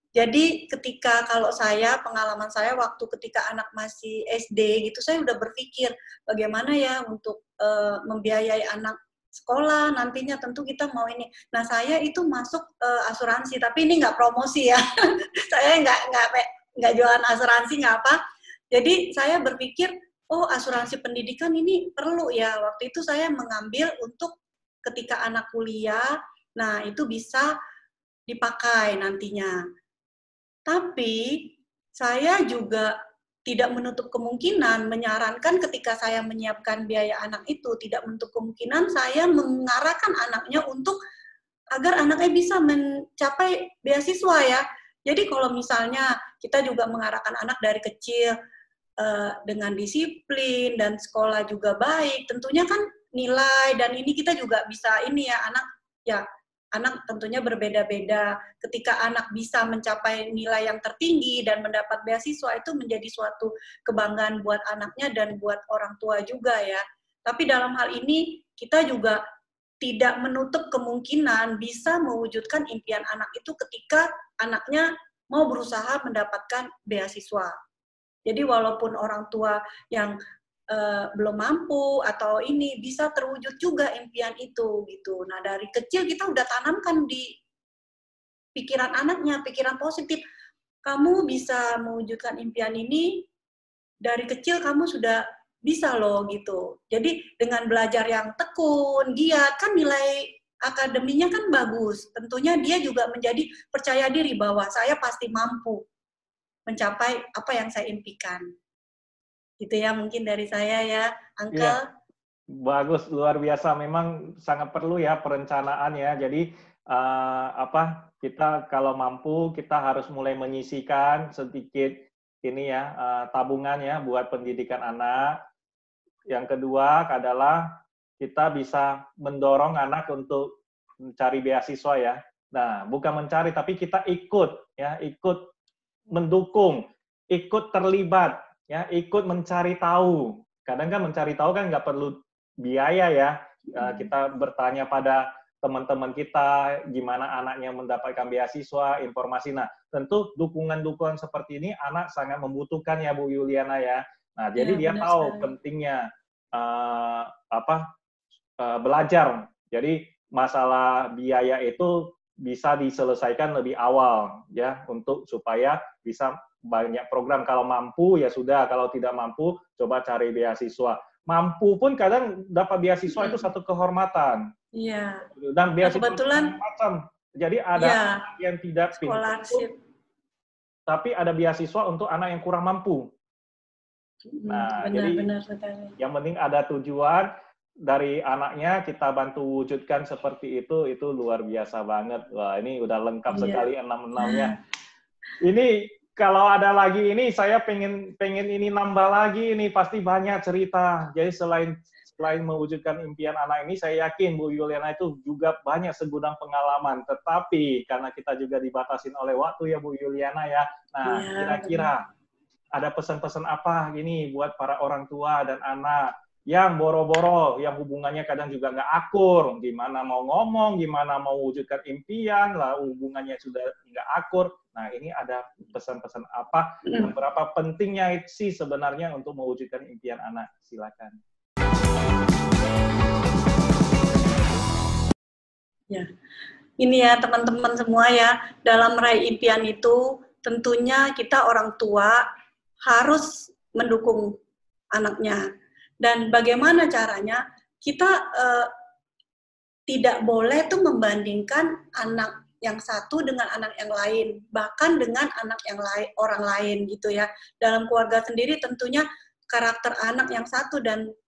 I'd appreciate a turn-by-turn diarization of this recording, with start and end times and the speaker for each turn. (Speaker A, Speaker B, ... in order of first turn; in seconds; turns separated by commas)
Speaker A: 0.1-18.2, Speaker A: 18.7-24.3, Speaker A: 24.8-27.5, Speaker A: 28.3-29.6, Speaker A: 30.7-32.9, Speaker A: 33.5-41.0, Speaker A: 41.7-48.3, Speaker A: 49.0-56.2, Speaker A: 56.7-69.2, Speaker A: 69.8-77.5, Speaker A: 78.2-80.2, Speaker A: 80.7-87.3, Speaker A: 88.5-90.2, Speaker A: 90.8-93.2, Speaker A: 94.0-105.8, Speaker A: 106.7-108.4, Speaker A: 109.6-111.9, Speaker B: 112.5-125.4, Speaker B: 126.3-130.6, Speaker B: 131.2-135.5, Speaker B: 136.1-157.9, Speaker A: 143.8-144.1, Speaker A: 154.6-155.5, Speaker B: 158.6-174.5, Speaker A: 173.1-173.5, Speaker A: 174.7-175.3, Speaker B: 175.3-179.7, Speaker A: 175.8-176.5, Speaker A: 177.8-178.2, Speaker A: 179.0-179.7, Speaker B: 180.9-183.1, Speaker A: 184.2-185.9, Speaker B: 184.5-185.2, Speaker B: 186.0-187.3, Speaker B: 187.9-194.5, Speaker A: 193.3-193.7, Speaker A: 194.2-194.6, Speaker B: 195.4-212.1, Speaker A: 211.1-211.9, Speaker B: 212.7-231.2, Speaker A: 226.8-227.1, Speaker A: 236.8-242.2, Speaker A: 242.8-244.3, Speaker A: 244.9-245.4, Speaker A: 246.0-248.7, Speaker A: 249.9-261.0